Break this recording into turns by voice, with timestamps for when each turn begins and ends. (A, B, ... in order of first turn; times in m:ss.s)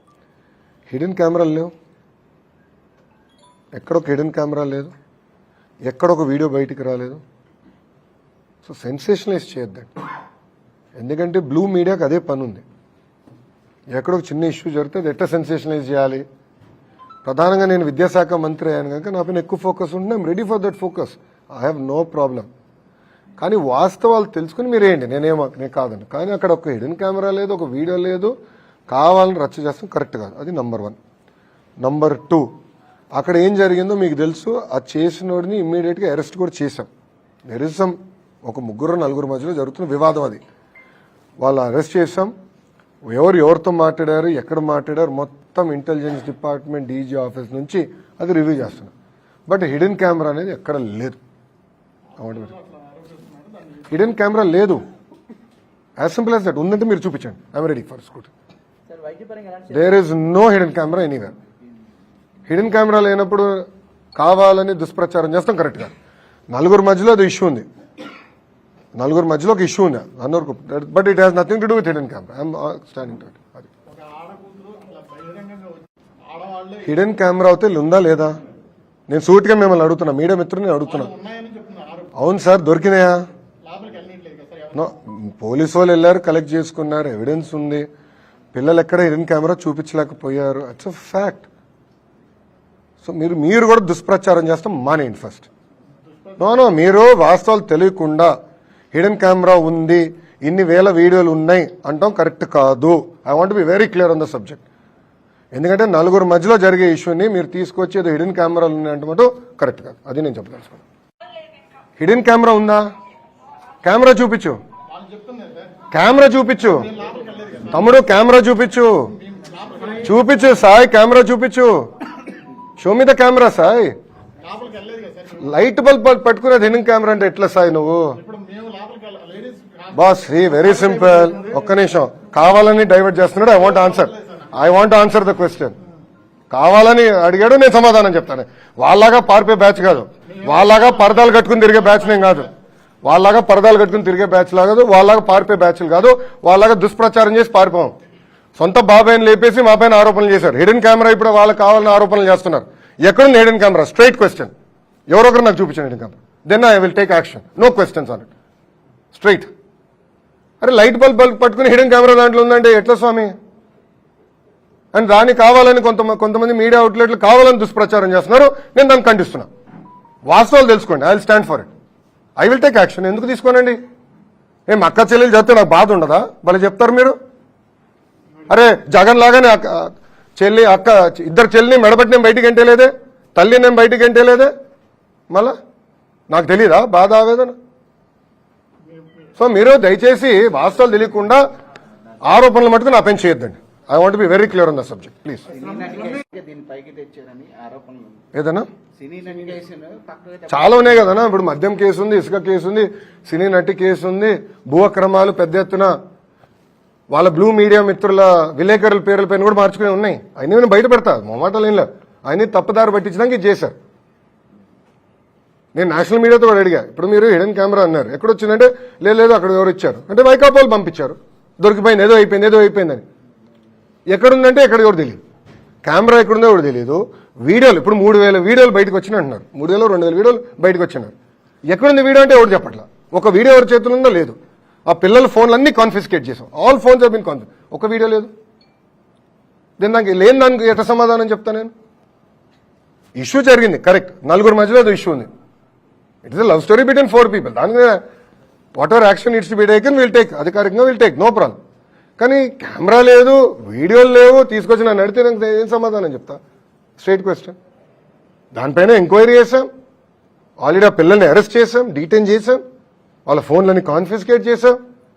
0:00.9-0:01.7 A
0:03.7-0:04.9 A
0:05.8-0:07.2 A
0:08.6-0:09.9 A
0:10.9-0:12.6 A
0:13.9-0:16.2 A
0:17.2-0:22.5 A
0:23.4-0:28.3 A
0:28.9-0:31.0 A
0:31.8-0:32.5 A
0:33.1-0:36.9 A
0:37.5-0:40.4 A
0:41.4-0:42.3 A
0:43.0-0:48.9 A
0:49.5-0:51.2 A
0:52.2-0:52.5 A
0:52.6-0:53.8 B
0:53.9-0:54.8 A
0:56.0-0:58.3 A
0:59.0-0:59.6 B
0:59.7-1:01.3 A
1:02.5-1:05.9 A
1:06.5-1:07.6 A
1:08.9-1:13.7 A
1:13.9-1:16.8 B
1:16.8-1:18.4 A
1:19.1-1:21.1 A
1:21.0-1:22.1 B
1:22.1-1:23.2 A
1:23.6-1:24.8 B
1:24.7-1:27.8 A
1:28.5-1:31.5 A
1:33.0-1:35.5 A
1:36.4-1:38.3 A
1:38.9-1:44.6 A
1:45.5-1:50.8 A
1:52.0-1:52.9 A
1:53.8-1:54.6 A
1:54.9-1:55.8 B
1:55.9-1:56.9 A
1:56.8-1:57.7 B
1:57.7-1:59.1 A
1:59.2-2:00.0 B
2:00.0-2:01.9 A
2:02.8-2:03.9 A
2:04.4-2:05.5 B
2:05.4-2:08.2 A
2:08.2-2:10.0 B
2:09.9-2:15.7 A
2:10.5-2:11.6 B
2:13.8-2:14.4 B
2:16.5-2:22.5 A
2:20.7-2:21.1 B
2:23.0-2:27.9 A
2:28.6-2:34.5 A
2:35.1-2:38.3 A
2:39.1-2:39.5 A
2:40.6-2:43.3 A
2:44.9-2:49.5 A
2:50.2-2:51.7 A
2:52.4-2:53.8 A
2:54.7-2:57.2 A
2:58.5-3:04.5 A
3:06.3-3:07.6 A
3:09.4-3:11.4 A
3:12.2-3:15.5 A
3:15.5-3:18.2 B
3:18.3-3:18.7 A
3:19.0-3:20.8 B
3:20.5-3:25.9 A
3:27.1-3:33.8 A
3:35.7-3:43.0 A
3:44.1-3:45.2 A
3:45.8-3:51.1 A
3:51.7-3:58.3 A
3:59.8-4:01.7 A
4:03.1-4:05.3 A
4:06.2-4:08.0 A
4:08.7-4:11.6 A
4:12.2-4:16.4 A
4:17.0-4:17.6 A
4:18.5-4:19.7 A
4:20.6-4:22.6 A
4:23.2-4:24.8 A